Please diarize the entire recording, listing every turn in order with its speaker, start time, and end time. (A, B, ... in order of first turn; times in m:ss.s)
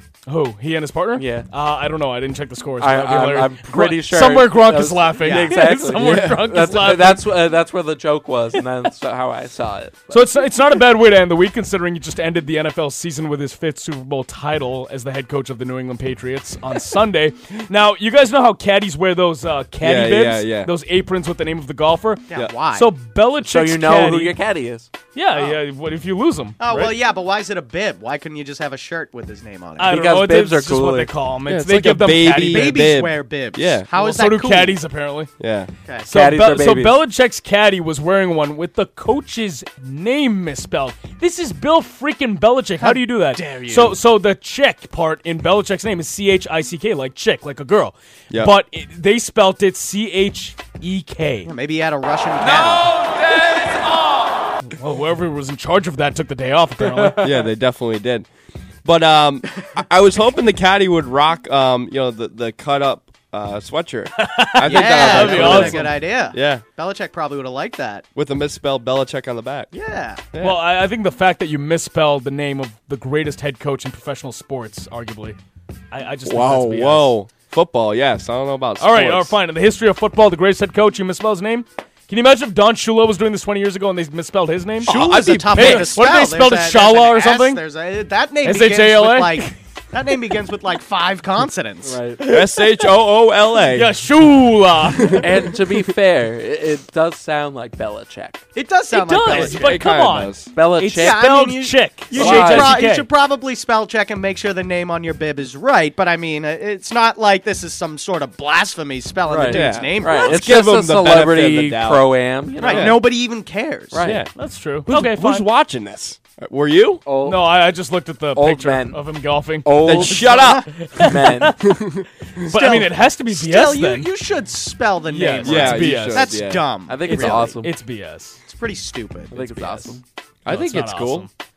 0:00.3-0:07.3 A
0:01.2-0:01.5 B
0:02.8-0:10.2 B
0:06.0-0:06.5 C
0:10.1-0:24.4 A
0:19.8-0:20.7 C
0:22.3-0:22.9 D
0:23.4-0:24.9 B
0:25.1-0:26.9 A
0:25.3-0:25.6 D
0:26.6-0:30.0 D
0:29.8-0:32.8 A
0:29.8-0:31.1 B
0:31.4-0:33.9 C
0:32.4-0:34.8 D
0:33.9-0:35.3 A
0:35.4-0:35.7 C
0:35.8-0:36.1 D
0:36.0-0:37.0 B
0:36.0-0:51.5 A
0:42.8-0:44.0 D
0:51.4-0:53.0 D
0:52.4-0:53.9 B
0:54.6-0:57.3 A
0:57.2-0:58.3 C
0:58.8-1:06.6 C
1:04.2-1:06.0 A
1:04.6-1:08.0 D
1:05.1-1:05.8 B
1:08.1-1:09.7 C
1:09.7-1:10.3 D
1:10.3-1:10.6 C
1:10.4-1:15.4 A
1:15.9-1:17.2 A
1:16.2-1:19.3 C
1:18.8-1:27.6 A
1:24.8-1:26.0 C
1:24.8-1:32.0 D
1:28.4-1:29.6 A
1:31.8-1:32.2 B
1:32.2-1:32.9 A
1:32.2-1:33.9 C
1:33.6-1:35.4 A
1:35.2-1:38.4 B
1:38.5-1:39.6 D
1:38.9-1:43.1 A
1:39.3-1:40.5 C
1:40.5-1:41.4 B
1:41.0-1:50.4 D
1:42.1-1:42.8 B
1:49.2-1:53.0 B
1:49.5-1:53.0 C
1:52.6-1:54.0 D
1:53.9-1:54.2 B
1:54.0-1:54.3 C
1:54.2-1:55.5 A
1:54.9-1:57.0 C
1:57.0-1:57.5 B
1:57.2-2:01.7 A
1:58.3-1:59.0 B
1:59.6-2:00.5 B
1:59.8-2:00.7 C
2:00.3-2:00.6 D
2:01.0-2:01.6 B
2:01.6-2:02.0 C
2:02.4-2:04.1 A
2:02.5-2:07.6 D
2:05.1-2:06.3 A
2:05.4-2:06.6 C
2:06.9-2:07.7 B
2:07.0-2:08.4 A
2:08.4-2:10.0 D
2:09.3-2:10.0 B
2:10.4-2:11.3 C
2:10.5-2:11.3 A